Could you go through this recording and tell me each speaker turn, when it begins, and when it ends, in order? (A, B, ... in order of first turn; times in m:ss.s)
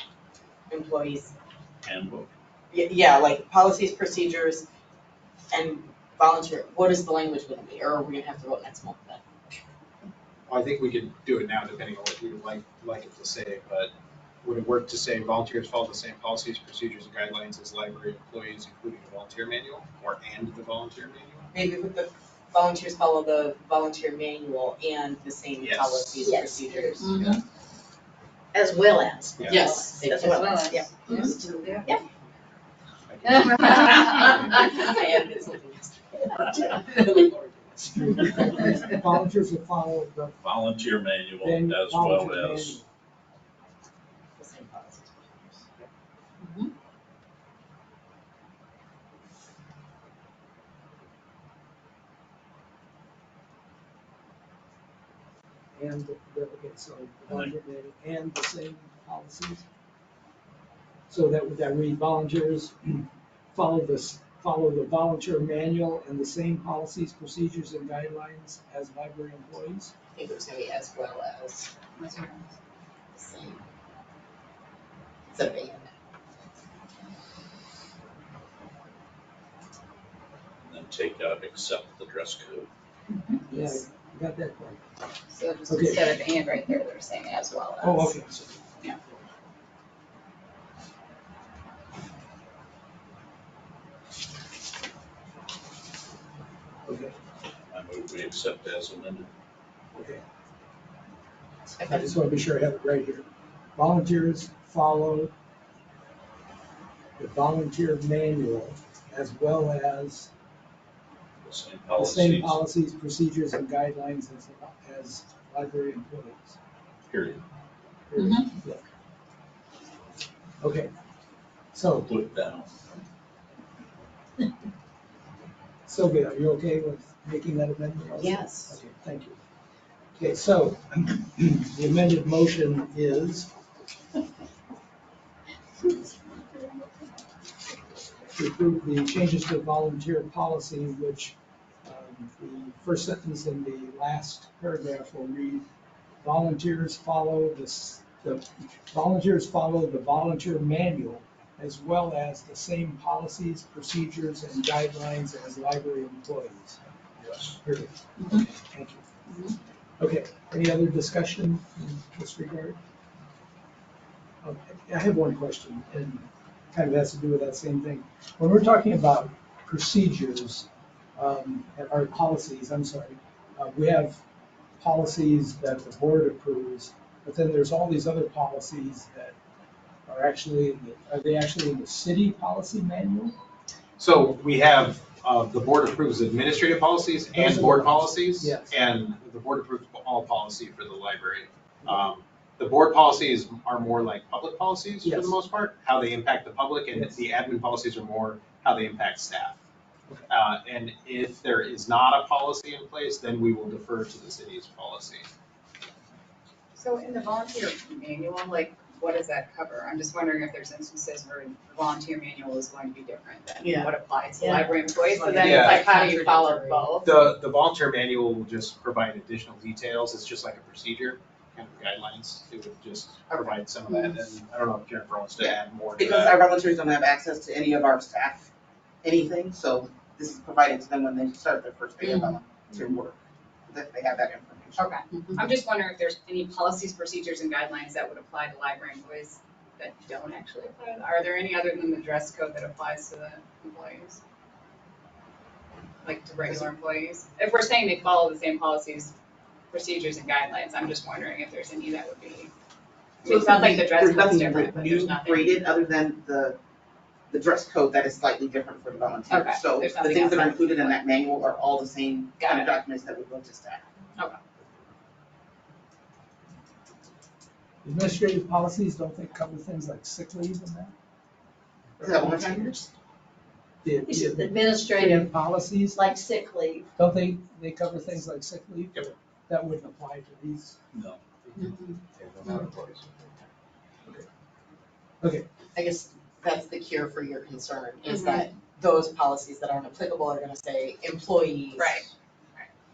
0:00.7-0:01.3 A
0:01.8-0:02.3 B
0:02.7-0:04.6 A
0:05.5-0:09.2 A
0:10.5-0:13.9 C
0:14.4-0:21.5 C
0:21.5-0:27.4 A
0:25.6-0:26.2 C
0:26.2-0:27.4 D
0:28.5-0:31.7 D
0:29.4-0:29.8 C
0:29.4-0:32.0 A
0:30.3-0:31.9 E
0:33.1-0:34.2 C
0:33.5-0:37.9 A
0:37.8-0:40.4 F
0:40.4-0:42.8 B
0:41.4-0:42.9 F
0:44.4-0:45.9 A
0:55.8-0:59.6 F
1:01.1-1:09.9 F
1:10.2-1:11.7 A
1:12.0-1:12.5 E
1:13.1-1:13.6 A
1:15.3-1:15.9 A
1:20.6-1:22.7 B
1:23.5-1:24.9 F
1:25.3-1:28.2 E
1:25.7-1:26.2 F
1:27.8-1:29.2 F
1:36.9-1:37.1 F
1:37.7-1:39.3 B
1:40.0-1:40.2 F
1:41.8-1:42.1 A
1:41.9-1:45.3 F
1:47.2-1:50.3 F
1:51.4-1:52.6 B
1:52.0-1:56.6 F
1:57.1-1:57.4 B
1:58.1-1:58.8 F
1:58.2-1:58.4 D
2:00.6-2:00.9 F
2:01.7-2:02.1 F
2:02.0-2:03.0 B
2:05.9-2:09.4 F
2:10.2-2:13.5 F
2:18.3-2:25.7 F
2:26.2-2:36.8 F
2:37.2-2:37.6 B
2:37.6-2:39.0 F
2:40.0-2:42.8 F
2:44.4-2:54.2 F
2:54.8-2:59.4 F
3:00.1-3:03.4 F
3:04.0-3:19.6 C
3:07.3-3:08.7 F
3:15.0-3:15.4 F
3:20.3-3:25.2 C
3:26.8-3:37.0 E
3:33.6-3:33.9 A
3:35.2-3:37.0 A
3:35.4-3:35.9 C
3:37.0-3:46.4 C
3:45.4-3:48.5 G
3:49.0-3:54.8 G
3:54.8-4:04.2 E
4:06.0-4:09.1 E
4:09.7-4:12.5 E
4:13.2-4:15.6 E
4:13.2-4:16.6 G
4:17.3-4:23.8 G
4:19.3-4:21.0 E
4:22.4-4:22.7 E
4:27.8-4:30.9 F
4:32.0-4:32.7 F
4:32.0-4:32.8 G
4:33.8-4:36.0 F
4:34.1-4:35.3 D
4:35.9-4:36.9 D
4:37.0-4:40.8 F
4:40.9-4:41.8 B
4:42.2-4:43.4 C
4:45.2-4:45.5 F
4:45.8-4:52.1 A
4:48.1-4:48.4 E
4:51.8-4:52.1 E